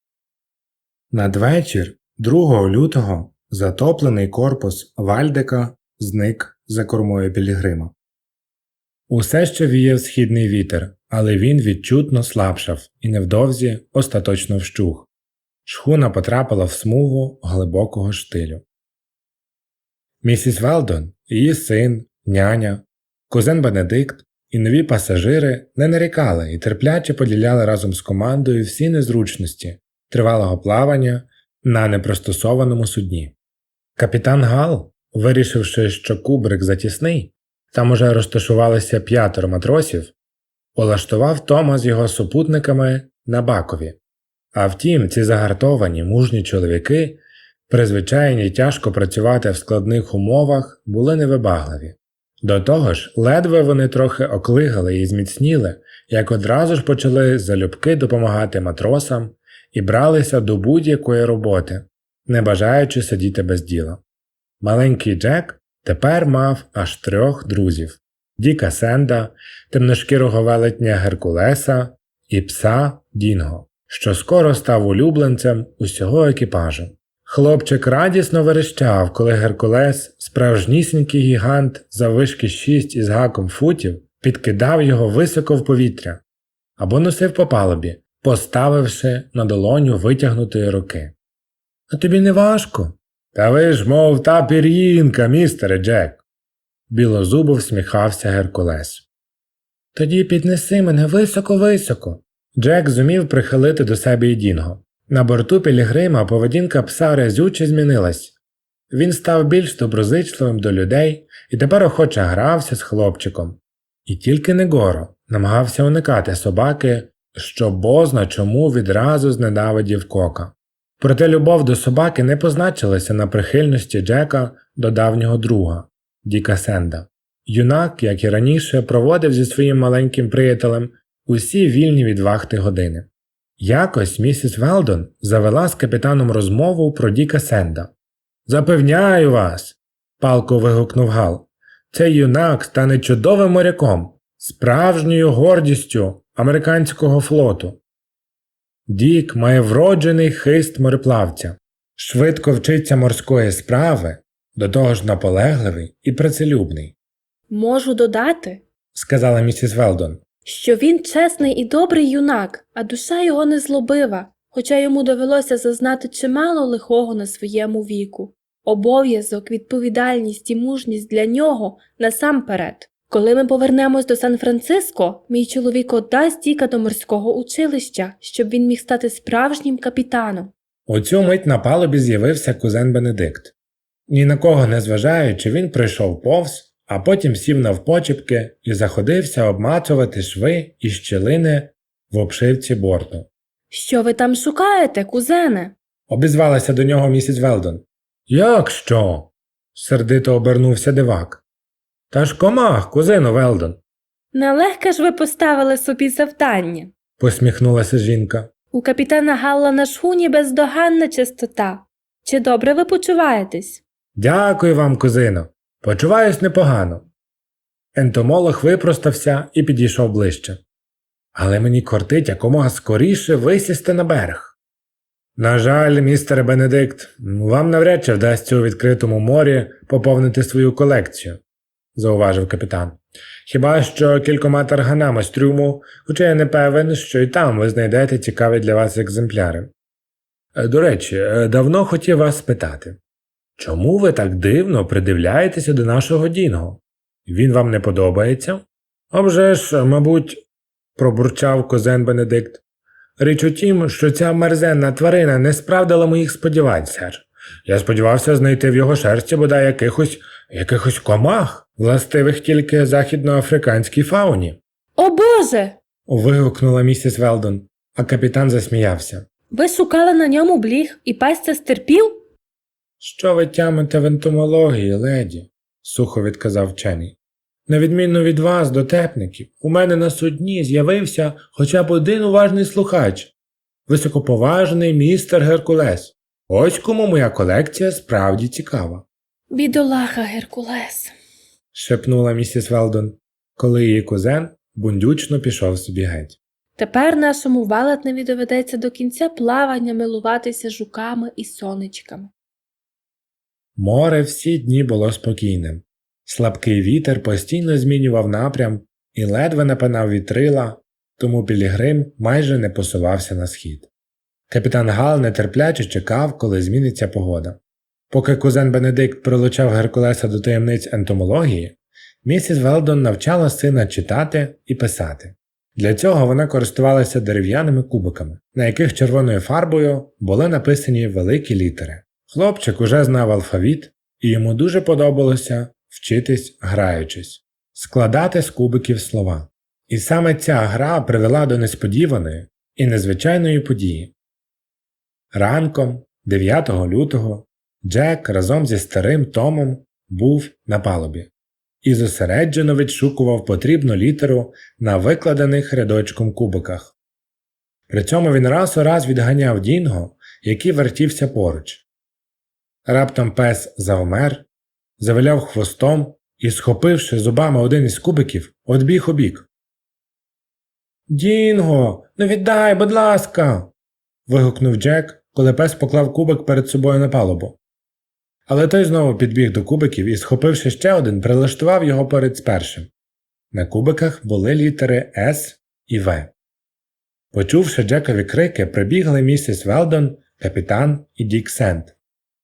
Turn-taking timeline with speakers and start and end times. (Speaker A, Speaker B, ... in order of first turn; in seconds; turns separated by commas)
Speaker A: 1.1-7.9, Speaker A: 9.1-15.1, Speaker A: 15.6-18.6, Speaker A: 20.2-33.3, Speaker A: 34.0-40.1, Speaker A: 40.7-44.0, Speaker A: 44.5-64.0, Speaker A: 64.6-86.2, Speaker A: 86.8-91.1, Speaker A: 91.9-96.2, Speaker A: 96.9-99.0, Speaker A: 99.9-108.3, Speaker A: 108.9-133.1, Speaker A: 133.6-137.9, Speaker A: 138.4-147.8, Speaker A: 148.9-156.9, Speaker B: 157.5-158.6, Speaker A: 158.9-160.2, Speaker B: 160.4-180.5, Speaker A: 180.9-183.5, Speaker A: 184.1-193.3, Speaker B: 193.7-195.7, Speaker A: 196.1-201.4, Speaker A: 202.1-203.8, Speaker B: 204.3-206.9, Speaker A: 207.2-208.5, Speaker B: 208.7-213.8, Speaker A: 214.2-217.1, Speaker A: 217.9-220.6, Speaker A: 221.3-224.6, Speaker A: 225.3-231.4, Speaker A: 231.9-239.7, Speaker A: 240.5-243.0, Speaker A: 243.6-250.4, Speaker A: 250.9-252.6, Speaker A: 253.2-264.6, Speaker B: 264.9-265.8, Speaker A: 266.1-269.2, Speaker B: 269.5-272.2, Speaker A: 273.0-283.3, Speaker A: 283.9-289.0, Speaker B: 289.5-291.1, Speaker A: 291.7-296.4, Speaker B: 296.8-302.3, Speaker A: 303.8-313.9, Speaker A: 314.5-317.6, Speaker A: 318.1-344.1, Speaker A: 345.3-351.3, Speaker A: 351.8-356.9, Speaker A: 357.9-361.8, Speaker A: 362.9-364.4, Speaker A: 365.0-369.5, Speaker A: 371.1-373.7, Speaker A: 374.3-377.6, Speaker A: 378.5-382.9, Speaker A: 383.5-386.3, Speaker A: 387.3-391.9